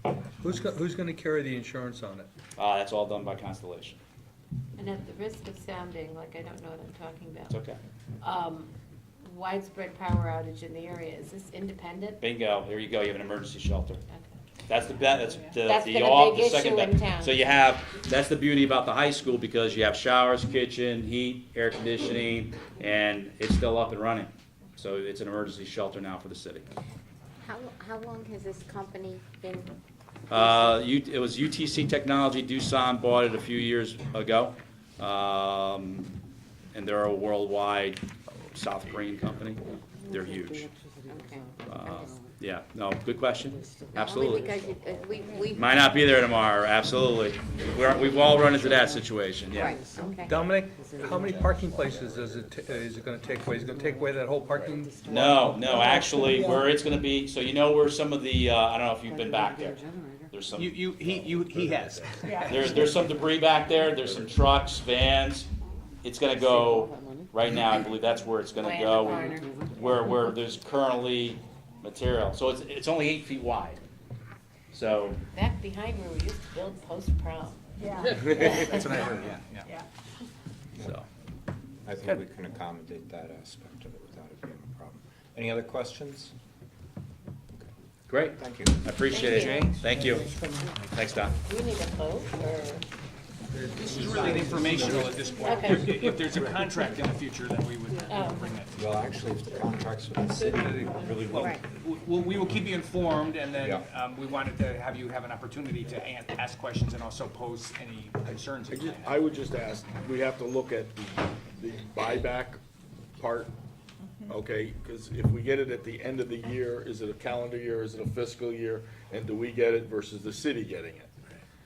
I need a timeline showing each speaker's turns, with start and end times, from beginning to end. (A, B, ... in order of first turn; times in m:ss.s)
0:00.4-0:02.3 A
0:02.6-0:04.0 B
0:04.8-0:07.5 C
0:07.5-0:07.8 B
0:08.2-0:08.7 C
0:09.2-0:12.2 C
0:12.2-0:14.0 B
0:14.7-0:26.7 B
0:15.6-0:17.3 C
0:27.4-0:29.7 D
0:30.3-0:36.1 B
0:30.4-0:30.7 D
0:36.7-0:40.7 B
0:41.0-0:41.5 D
0:41.6-0:44.5 B
0:43.9-0:45.6 D
0:45.5-0:50.0 B
0:49.5-0:50.0 C
0:49.6-0:51.3 D
0:50.2-0:55.7 A
0:54.8-0:55.3 D
0:55.0-1:01.3 B
1:00.5-1:02.8 E
1:02.4-1:05.5 B
1:06.0-1:13.8 B
1:08.6-1:09.7 C
1:14.7-1:15.2 B
1:15.3-1:17.6 C
1:18.1-1:19.7 E
1:18.3-1:19.1 F
1:20.8-1:21.1 B
1:21.8-1:26.3 F
1:28.1-1:30.4 B
1:28.4-1:28.8 F
1:29.1-1:29.7 C
1:29.3-1:29.8 E
1:29.9-1:30.7 A
1:30.9-1:31.4 B
1:31.4-1:32.8 C
1:33.5-1:35.8 A
1:33.8-1:38.9 E
1:35.4-1:36.0 C
1:38.1-1:38.5 C
1:38.8-1:41.6 F
1:40.4-1:49.2 E
1:43.6-1:43.8 F
1:48.7-1:52.6 G
1:53.2-1:53.5 G
1:54.3-2:01.1 G